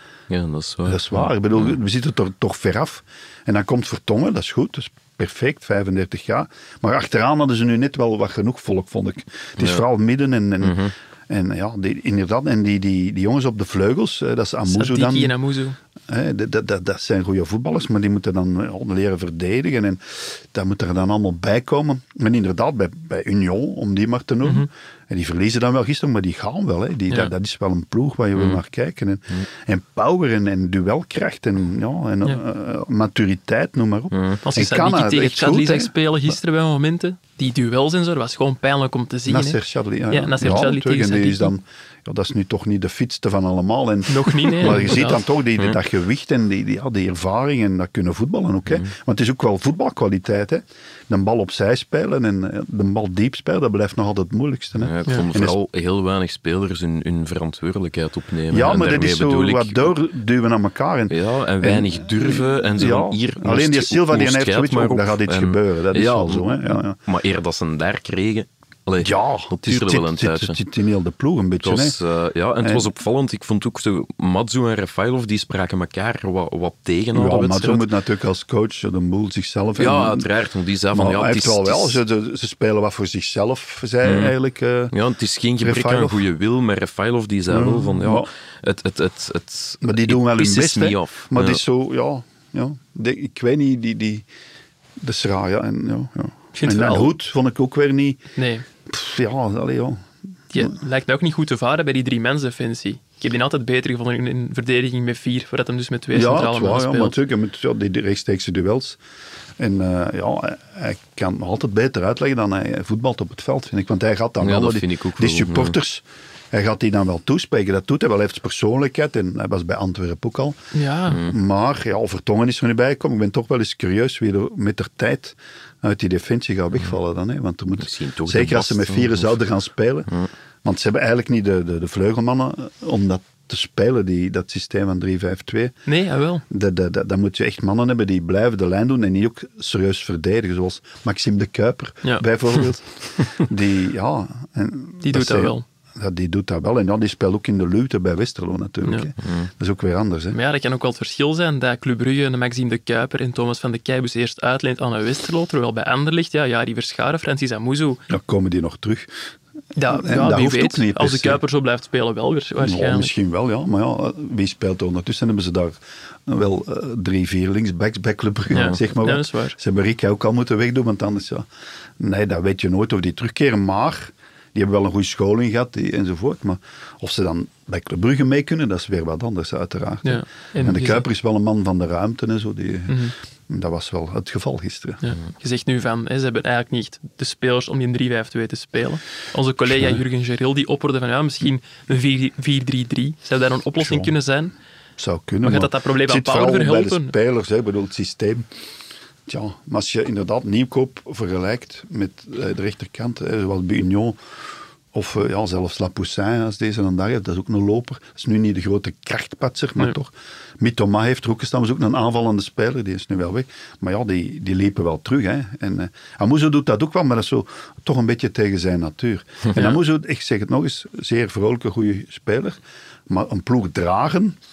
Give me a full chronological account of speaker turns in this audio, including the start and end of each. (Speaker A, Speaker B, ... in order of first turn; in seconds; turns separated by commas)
Speaker A: 0.3-1.7, Speaker B: 0.8-15.3, Speaker A: 9.6-9.8, Speaker A: 10.6-10.9, Speaker C: 14.7-15.8, Speaker B: 16.1-35.9, Speaker A: 34.1-34.4, Speaker C: 34.4-41.5, Speaker B: 39.2-55.5, Speaker C: 44.1-45.2, Speaker A: 54.8-59.9, Speaker B: 58.5-67.0, Speaker A: 61.1-70.6, Speaker B: 69.0-72.0, Speaker A: 71.6-77.9, Speaker B: 72.6-72.9, Speaker B: 77.1-80.3, Speaker A: 79.8-82.0, Speaker B: 80.9-84.9, Speaker A: 84.0-84.3, Speaker A: 84.9-91.6, Speaker B: 85.6-86.2, Speaker B: 87.5-88.3, Speaker B: 89.8-94.2, Speaker B: 95.0-98.2, Speaker C: 96.5-97.1, Speaker C: 98.3-98.7, Speaker B: 98.9-100.0, Speaker C: 100.5-107.1, Speaker B: 106.1-109.0, Speaker B: 109.6-120.6, Speaker A: 114.4-115.8, Speaker C: 120.7-121.2, Speaker A: 121.1-121.3, Speaker B: 121.2-130.1, Speaker A: 127.8-129.4, Speaker B: 130.6-135.7, Speaker C: 135.8-136.4, Speaker B: 136.5-150.4, Speaker C: 145.0-145.6, Speaker A: 149.2-149.5, Speaker C: 150.3-158.0, Speaker B: 158.1-159.1, Speaker C: 159.8-163.1, Speaker B: 159.9-161.4, Speaker B: 162.6-171.4, Speaker C: 168.5-169.6, Speaker B: 172.0-185.0, Speaker C: 180.0-181.0, Speaker C: 182.9-183.1, Speaker C: 185.0-194.5, Speaker B: 193.8-194.1, Speaker B: 195.0-198.5, Speaker C: 195.4-197.1, Speaker B: 199.3-204.2, Speaker B: 204.9-224.4, Speaker C: 219.5-219.8